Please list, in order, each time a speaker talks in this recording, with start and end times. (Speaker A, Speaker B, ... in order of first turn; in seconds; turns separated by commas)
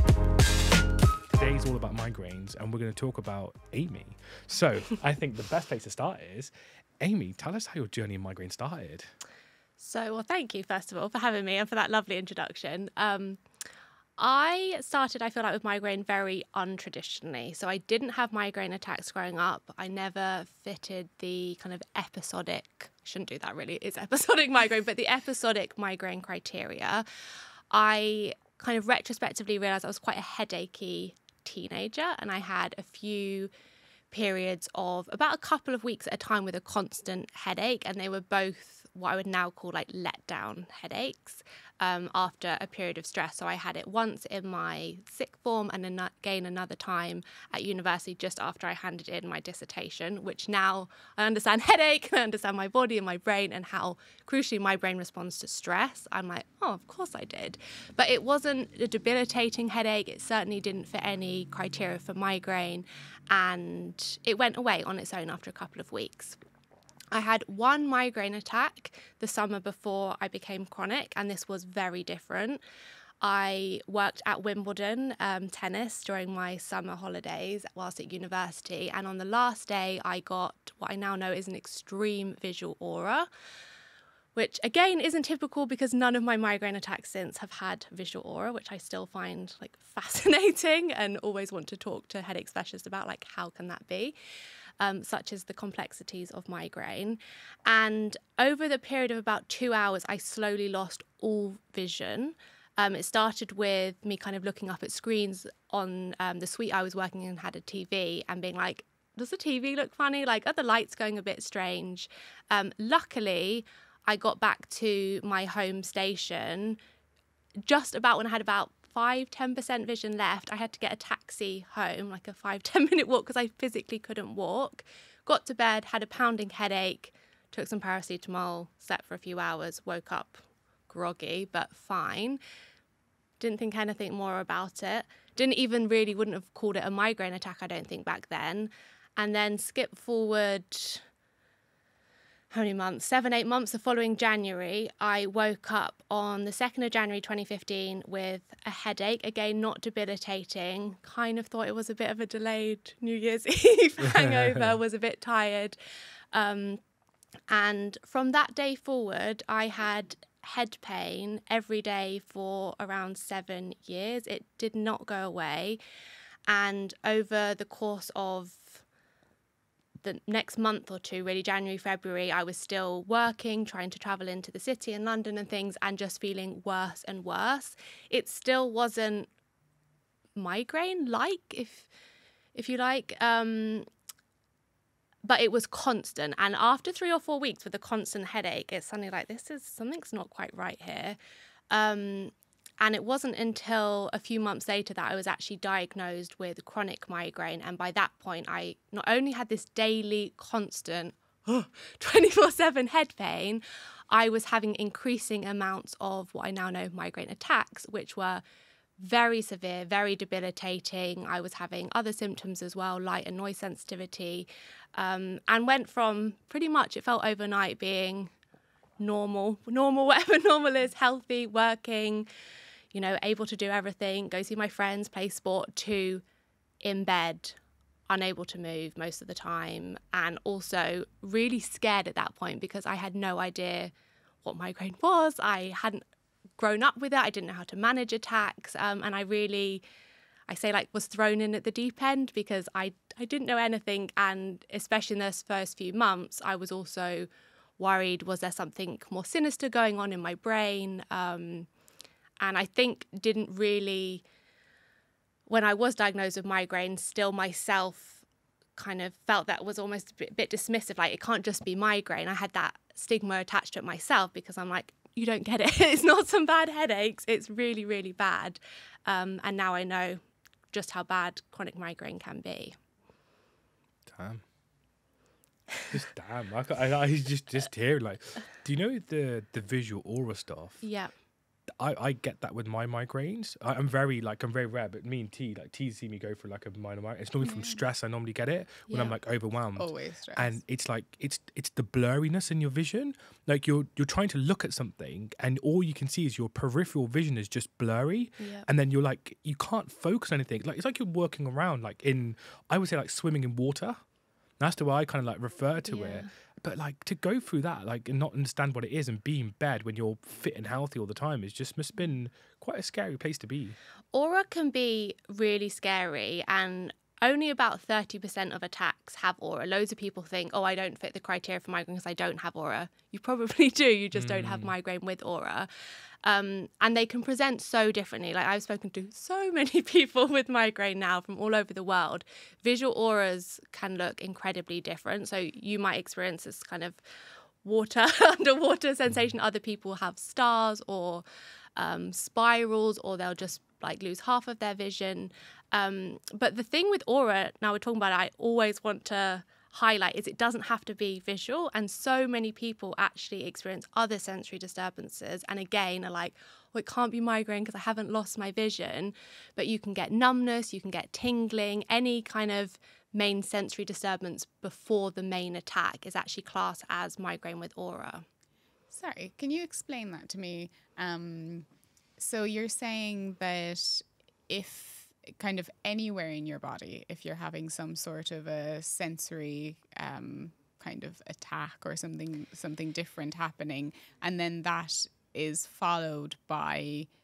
Speaker A: 1.3-9.1, Speaker B: 9.8-13.4, Speaker B: 14.2-27.0, Speaker B: 27.7-33.5, Speaker B: 34.1-66.4, Speaker B: 67.1-72.6, Speaker B: 73.2-83.3, Speaker B: 84.3-94.1, Speaker B: 94.8-116.8, Speaker B: 117.6-132.4, Speaker B: 133.4-141.0, Speaker B: 142.5-155.8, Speaker A: 154.0-154.8, Speaker B: 156.3-156.8, Speaker B: 157.5-165.8, Speaker B: 166.5-168.8, Speaker B: 170.0-179.3, Speaker B: 180.3-181.9, Speaker B: 182.5-183.9, Speaker B: 185.2-191.2, Speaker B: 191.7-208.4, Speaker B: 209.0-218.3, Speaker B: 219.0-222.3, Speaker B: 222.9-226.2, Speaker B: 226.8-227.6, Speaker B: 228.1-233.9, Speaker B: 234.4-236.0, Speaker B: 236.6-239.8, Speaker B: 240.5-251.7, Speaker B: 252.4-254.2, Speaker B: 255.5-258.2, Speaker B: 258.8-270.2, Speaker B: 270.7-272.8, Speaker A: 274.1-274.4, Speaker A: 275.9-280.8, Speaker B: 280.8-281.1, Speaker A: 281.8-304.0, Speaker C: 287.4-287.8, Speaker B: 288.9-289.1, Speaker C: 289.8-290.6, Speaker B: 298.4-298.6, Speaker A: 304.6-313.8, Speaker B: 305.9-306.2, Speaker B: 314.1-325.7, Speaker A: 324.1-324.7, Speaker B: 326.2-337.0, Speaker B: 337.6-341.2, Speaker B: 341.8-368.2, Speaker C: 368.9-371.6, Speaker C: 372.2-387.1